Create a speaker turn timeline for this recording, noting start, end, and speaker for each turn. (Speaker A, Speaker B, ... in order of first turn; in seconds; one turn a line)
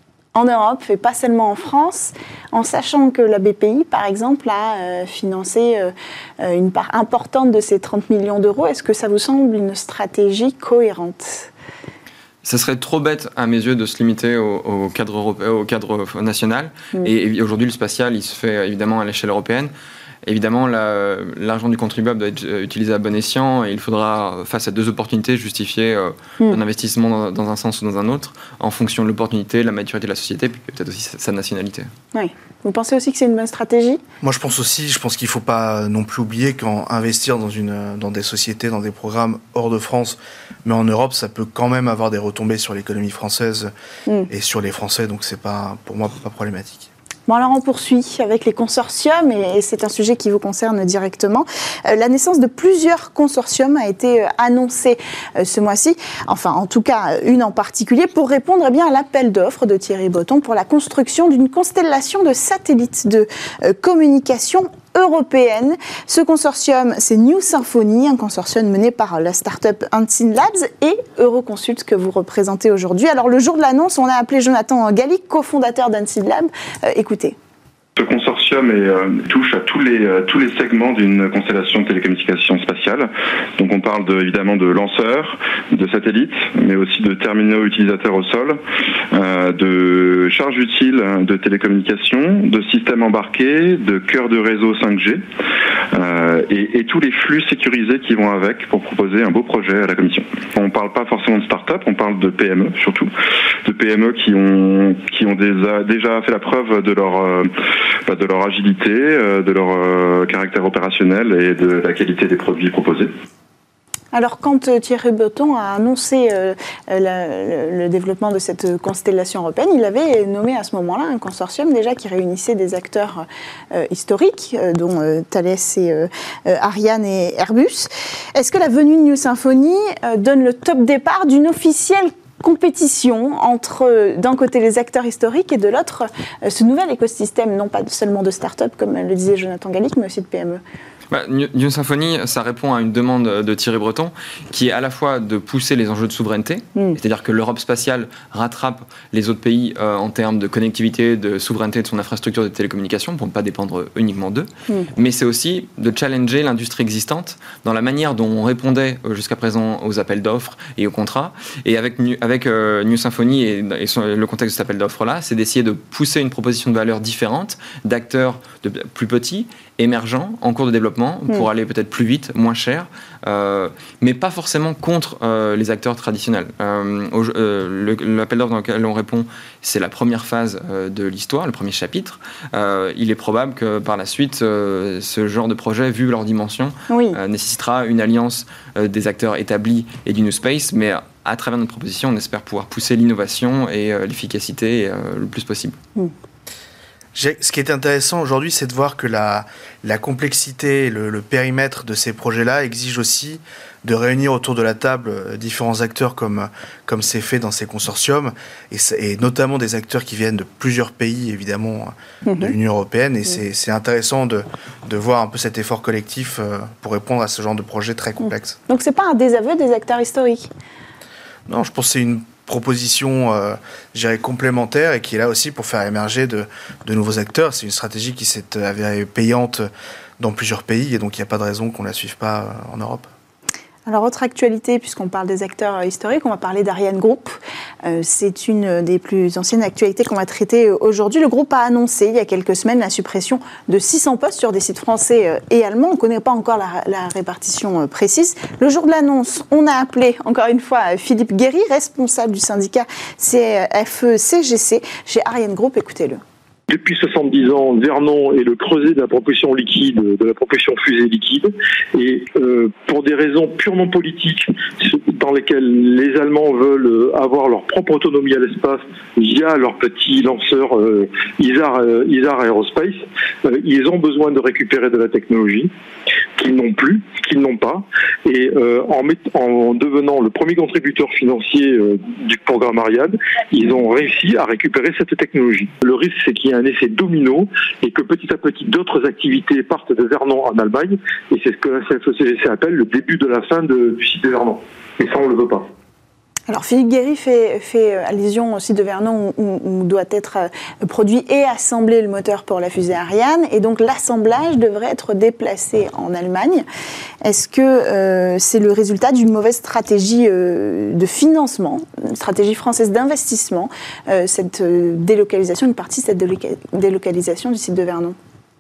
Speaker A: 0.3-11.5
Speaker B: 12.4-19.7
Speaker B: 20.2-31.9
Speaker A: 32.1-34.0
Speaker C: 34.2-43.7
Speaker C: 44.3-46.9
Speaker A: 47.3-77.3
Speaker D: 78.0-88.6
Speaker D: 89.1-95.2
Speaker D: 95.9-103.1
Speaker D: 103.7-107.5
Speaker D: 108.0-113.1
Speaker A: 114.1-140.6
Speaker B: 141.1-195.8
Speaker A: 186.9-187.2
Speaker C: 197.1-218.6
Speaker A: 212.2-212.5
Speaker A: 218.7-220.5
Speaker C: 221.5-229.7
Speaker C: 230.2-233.1
Speaker A: 233.8-256.2
Speaker E: 256.7-275.7
Speaker E: 276.4-295.7
Speaker A: 296.5-306.6
Speaker A: 307.2-318.1